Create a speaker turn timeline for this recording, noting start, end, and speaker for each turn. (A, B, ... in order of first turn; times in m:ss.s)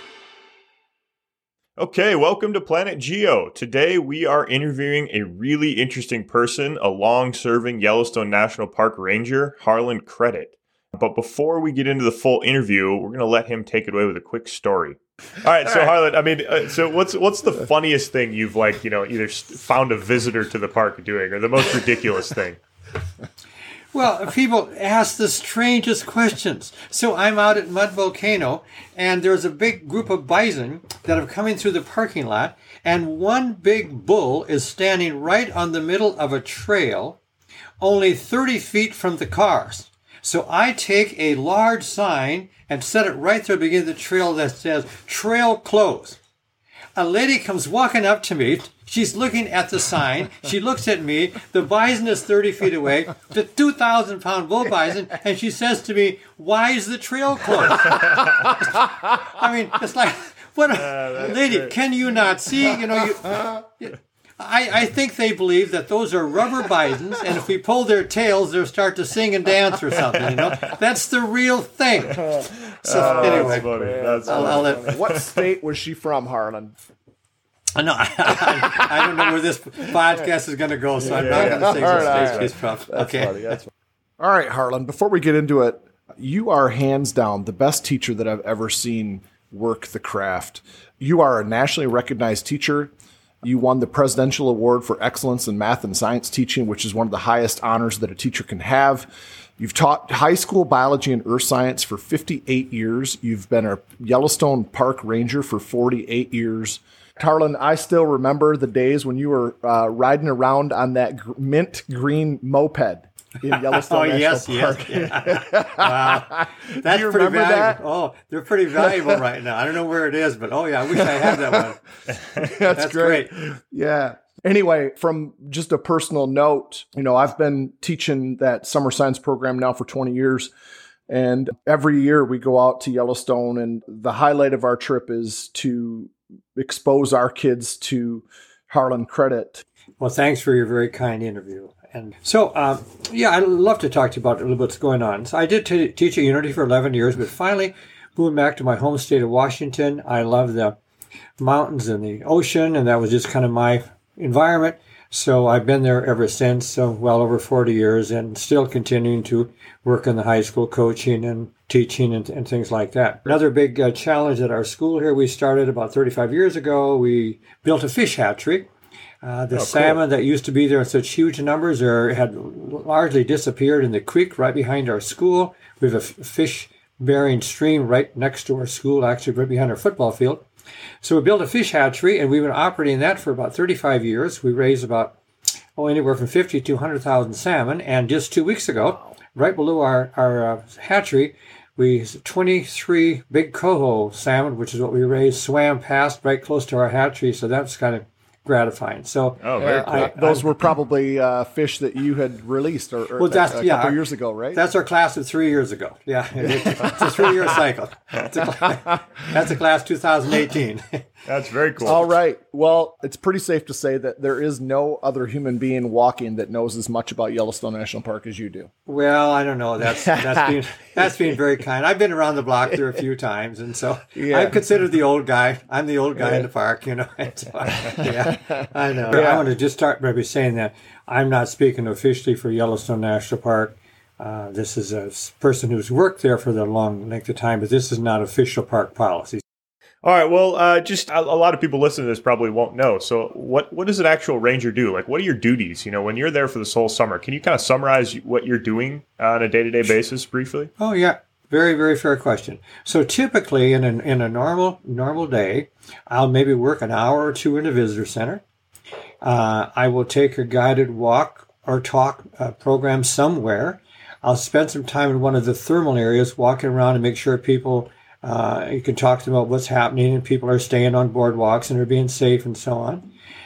0:01.8-0:22.6 A
0:23.9-0:37.2 B
0:37.8-0:46.2 B
0:47.0-1:12.2 B
1:00.7-1:01.7 A
1:12.2-1:15.4 A
1:12.8-1:13.7 B
1:12.9-1:16.8 C
1:14.2-1:15.0 B
1:17.8-1:23.6 B
1:18.5-1:19.3 C
1:21.0-1:57.8 C
1:21.1-1:22.5 A
1:53.6-2:01.8 B
1:58.8-1:59.2 C
2:01.0-2:01.6 C
2:02.4-2:10.5 C
2:02.7-2:03.3 B
2:11.1-2:19.6 C
2:20.0-2:30.8 B
2:31.4-2:48.7 B
2:49.2-3:00.4 B
2:49.5-2:50.0 A
3:01.0-3:05.2 B
3:05.8-3:20.5 B
3:19.4-3:20.1 A
3:19.6-3:24.6 C
3:23.2-3:24.0 B
3:24.5-3:31.0 B
3:26.4-3:27.4 C
3:31.3-3:32.0 A
3:31.8-3:38.7 C
3:38.9-3:59.4 B
3:40.0-3:41.1 C
3:44.2-3:44.6 C
3:49.1-3:49.5 C
4:00.0-4:10.7 A
4:10.8-4:18.4 B
4:19.2-4:33.1 B